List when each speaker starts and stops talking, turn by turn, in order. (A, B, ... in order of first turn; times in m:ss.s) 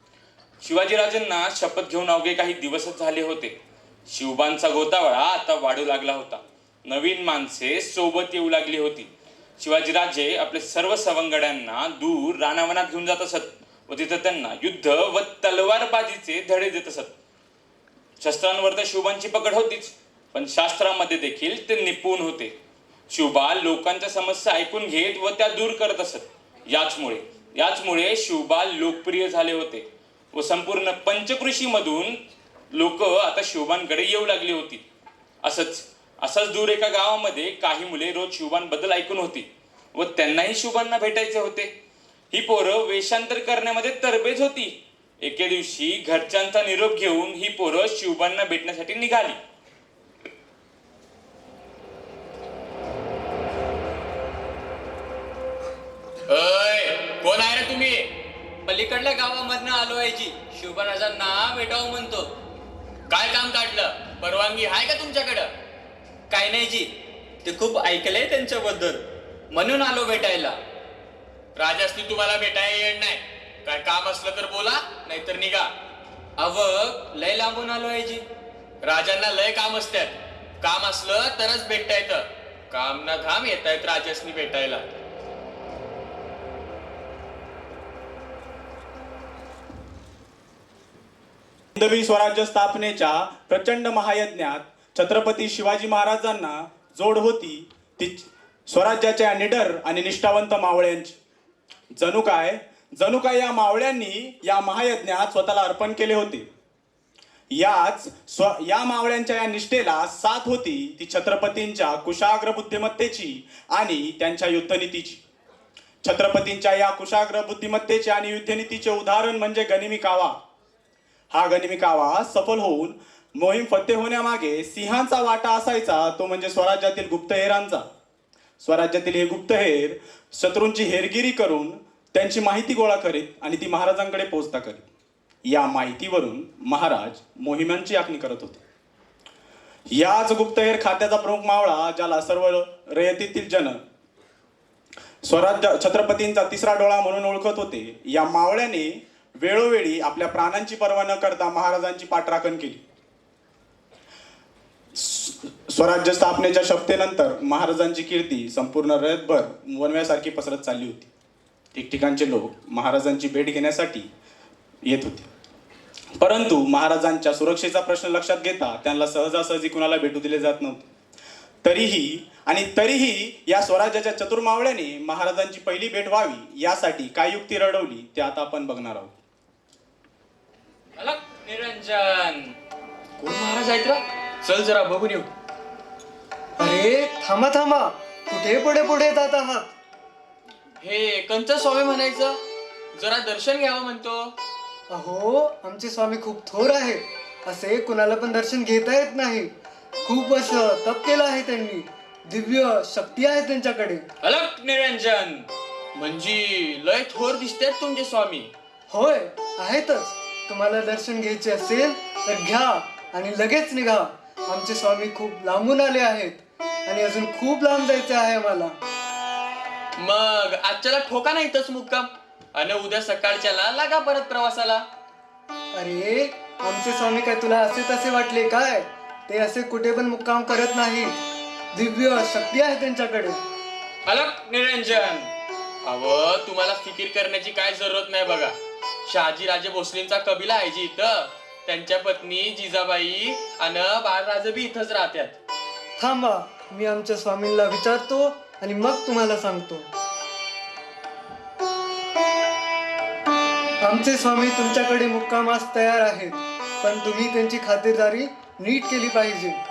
0:00.6-0:03.5 A
0:04.1-0:17.1 A
0:18.2-0:22.5 A
0:23.1-0:32.2 A
0:32.7-0:34.8 A
0:35.4-0:41.7 A
0:42.3-0:49.4 A
0:56.3-0:58.1 B
0:58.6-1:02.3 C
1:03.1-1:05.5 B
1:06.3-1:06.9 C
1:07.4-1:10.6 C
1:11.5-1:15.7 B
1:16.4-1:18.2 C
1:18.8-1:24.9 B
1:31.8-1:41.2 D
1:41.9-1:46.5 D
1:47.5-1:55.2 D
1:56.0-2:00.4 D
2:01.3-2:07.8 D
2:08.6-2:14.8 D
2:15.4-2:18.6 D
2:19.9-2:23.8 D
2:25.2-2:32.8 D
2:35.0-2:41.1 D
2:41.7-2:44.1 D
2:44.8-2:45.3 D
2:46.2-2:50.8 D
2:51.6-2:59.1 D
3:01.0-3:02.5 C
3:03.2-3:05.3 B
3:06.6-3:09.7 E
3:10.8-3:12.4 B
3:12.9-3:14.3 B
3:14.9-3:19.5 E
3:20.0-3:24.1 E
3:24.2-3:25.4 C
3:25.9-3:28.5 B
3:28.9-3:38.8 E
3:40.0-3:44.8 B
3:45.7-3:51.2 E
3:51.7-3:53.4 E
3:54.0-3:55.2 B
3:54.8-3:55.2 C
3:55.8-3:58.5 B
3:59.0-4:05.3 B
4:06.0-4:09.9 E
4:13.8-4:19.6 E